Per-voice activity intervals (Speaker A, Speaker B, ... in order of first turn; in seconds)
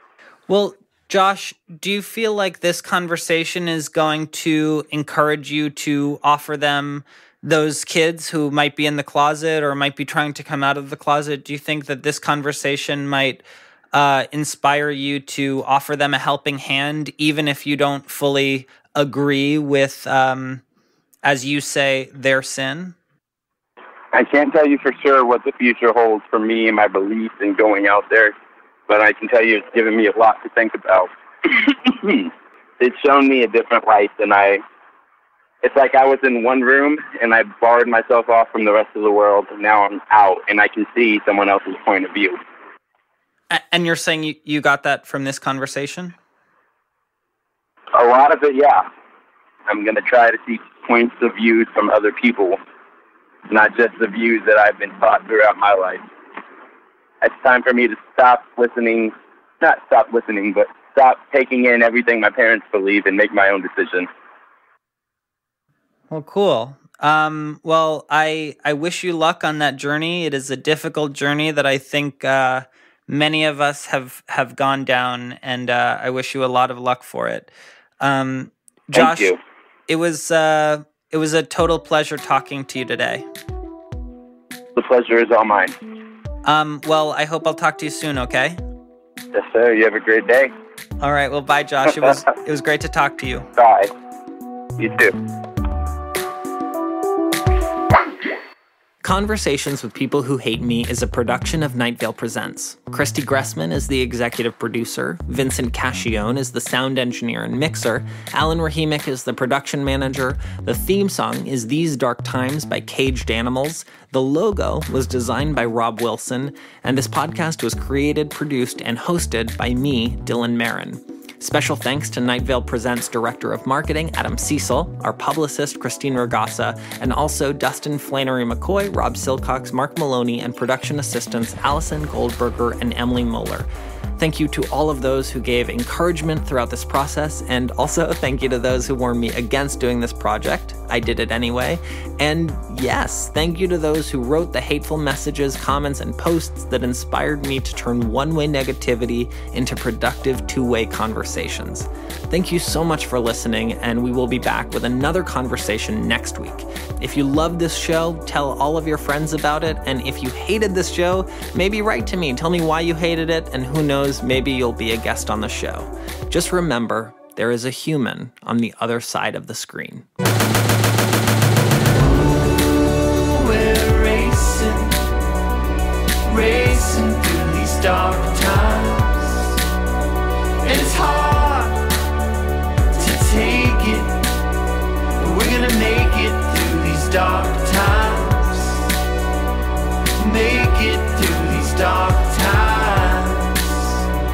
Speaker A: 0.5-20.6, 21.2-22.9, 43.5-46.1, 66.1-79.3, 79.9-83.3, 86.5-88.6, 91.0-93.5, 99.0-133.7, 134.2-170.1
Speaker B: 24.1-28.4, 28.9-34.6, 35.6-42.4, 47.9-48.9, 49.7-52.6, 53.5-56.0, 57.2-64.1, 78.9-79.4, 84.8-85.8, 89.3-90.5, 93.6-93.9, 94.8-95.1
Speaker C: 173.3-175.1, 176.3-179.6, 180.6-181.9, 183.0-184.3, 185.2-188.9, 190.2-194.0